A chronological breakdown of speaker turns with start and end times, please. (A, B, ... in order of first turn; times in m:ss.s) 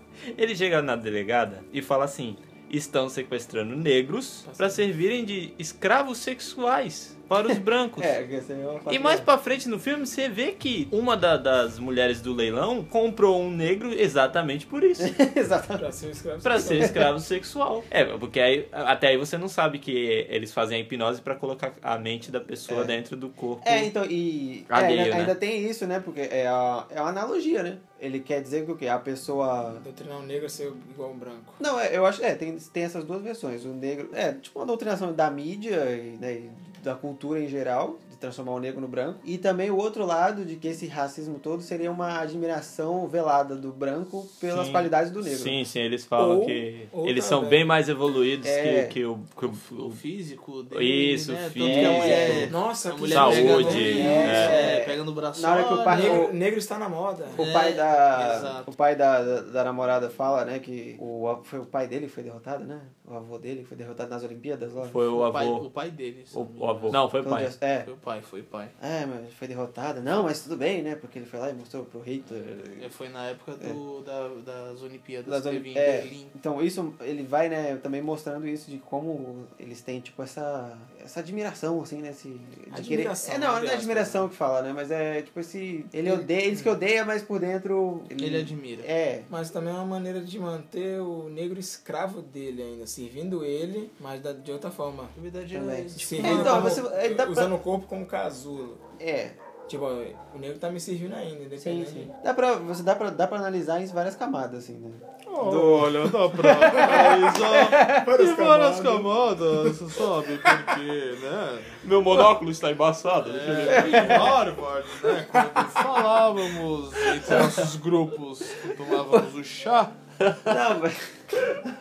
0:00.3-0:08.2 A
0:04.4-0:04.9 B
0:07.5-0:09.3 C
0:08.9-0:15.2 A
0:15.0-0:15.9 C
0:15.8-0:17.0 B
0:16.4-0:23.9 A
0:16.6-0:17.0 C
0:22.7-0:22.9 C
0:23.6-0:29.8 C
0:24.7-0:25.3 A
0:29.8-0:31.6 B
0:31.6-0:45.6 C
0:44.5-0:50.0 A
0:46.2-0:47.7 B
0:48.4-0:49.0 C
0:49.4-0:56.3 D
0:50.7-0:52.5 A
0:51.6-0:52.5 C
0:51.9-0:54.7 B
0:53.1-0:54.7 A
0:53.8-0:56.4 C
0:55.9-0:57.4 B
0:57.4-0:58.7 D
0:57.4-1:05.0 C
1:04.8-1:05.7 A
1:05.1-1:07.0 D
1:06.3-1:07.5 A
1:07.1-1:07.9 C
1:07.8-1:08.8 D
1:08.8-1:12.9 C
1:12.8-1:16.4 D
1:15.3-1:29.3 C
1:22.7-1:24.3 B
1:26.0-1:26.6 B
1:28.2-1:28.9 D
1:29.3-1:35.1 B
1:35.2-1:36.8 D
1:35.5-1:37.5 C
1:36.0-1:38.8 B
1:39.0-1:39.4 C
1:39.7-1:42.1 B
1:41.6-1:48.0 C
1:45.3-1:46.1 B
1:45.4-1:51.8 D
1:46.9-1:49.8 B
1:51.8-1:54.3 A
1:53.2-2:00.0 D
1:53.7-1:54.4 C
2:00.3-2:00.5 A
2:00.5-2:01.5 C